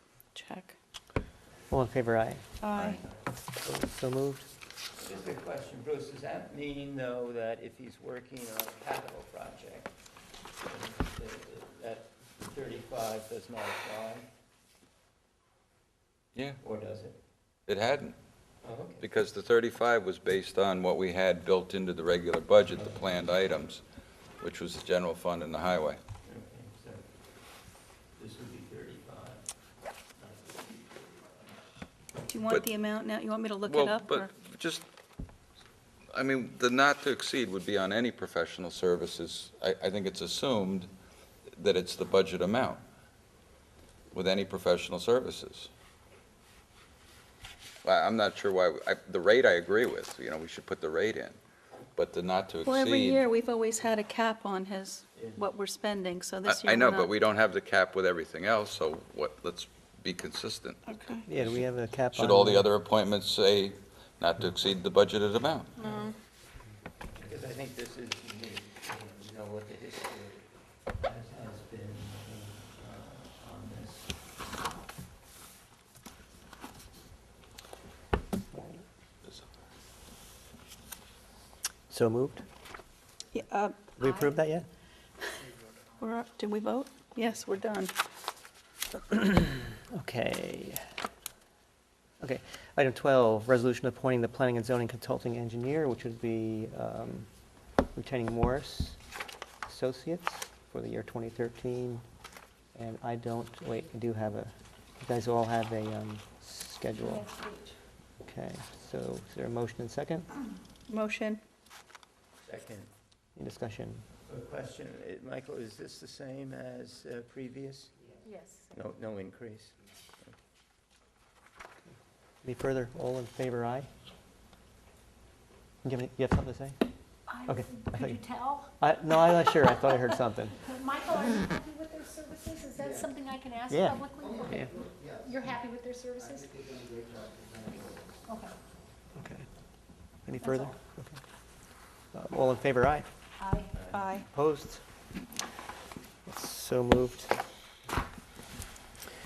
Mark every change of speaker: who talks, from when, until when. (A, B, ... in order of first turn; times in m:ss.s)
0:00.3-0:00.8 A
0:01.7-0:02.9 B
0:02.6-0:03.0 A
0:02.8-0:03.2 C
0:03.6-0:04.5 B
0:04.9-0:10.0 C
0:10.6-0:14.3 C
0:16.3-0:16.6 D
0:16.6-0:17.2 C
0:17.7-0:18.1 D
0:18.6-0:19.1 C
0:19.0-0:23.8 D
0:22.8-0:23.1 C
0:24.4-0:26.0 D
0:26.2-0:27.1 C
0:28.1-0:31.8 C
0:32.3-0:34.3 A
0:33.6-0:34.8 D
0:36.1-0:40.9 D
0:41.5-0:42.8 D
0:44.1-0:45.7 D
0:47.8-0:51.4 D
0:52.0-0:53.2 D
0:52.6-0:57.1 A
0:55.2-0:55.4 C
0:56.4-1:00.8 D
1:00.9-1:01.2 A
1:01.2-1:02.7 B
1:02.1-1:05.8 D
1:05.8-1:06.2 A
1:07.1-1:14.1 C
1:18.5-1:18.8 B
1:21.9-1:22.4 B
1:23.3-1:23.9 A
1:24.0-1:24.7 B
1:24.0-1:24.3 E
1:26.0-1:27.9 A
1:29.1-1:30.8 B
1:32.2-1:37.3 B
1:37.9-1:39.0 B
1:39.6-1:42.0 B
1:42.7-1:47.3 B
1:47.0-1:47.8 E
1:48.2-1:50.3 B
1:50.9-1:51.4 A
1:52.4-1:52.9 C
1:53.4-1:54.0 B
1:54.2-1:57.9 C
1:58.2-1:58.7 E
1:58.7-2:00.3 C
2:02.4-2:03.9 B
2:05.8-2:06.8 B
2:07.3-2:16.9 E
2:07.4-2:08.2 B
2:08.8-2:10.6 B
2:13.7-2:14.7 B
2:18.2-2:18.5 E
2:19.1-2:19.5 B
2:20.2-2:21.2 B
2:20.4-2:20.7 E
2:22.1-2:23.0 B
2:23.4-2:23.7 E
2:23.7-2:24.0 C
2:23.9-2:24.3 A
2:24.2-2:24.8 B
2:26.3-2:27.3 B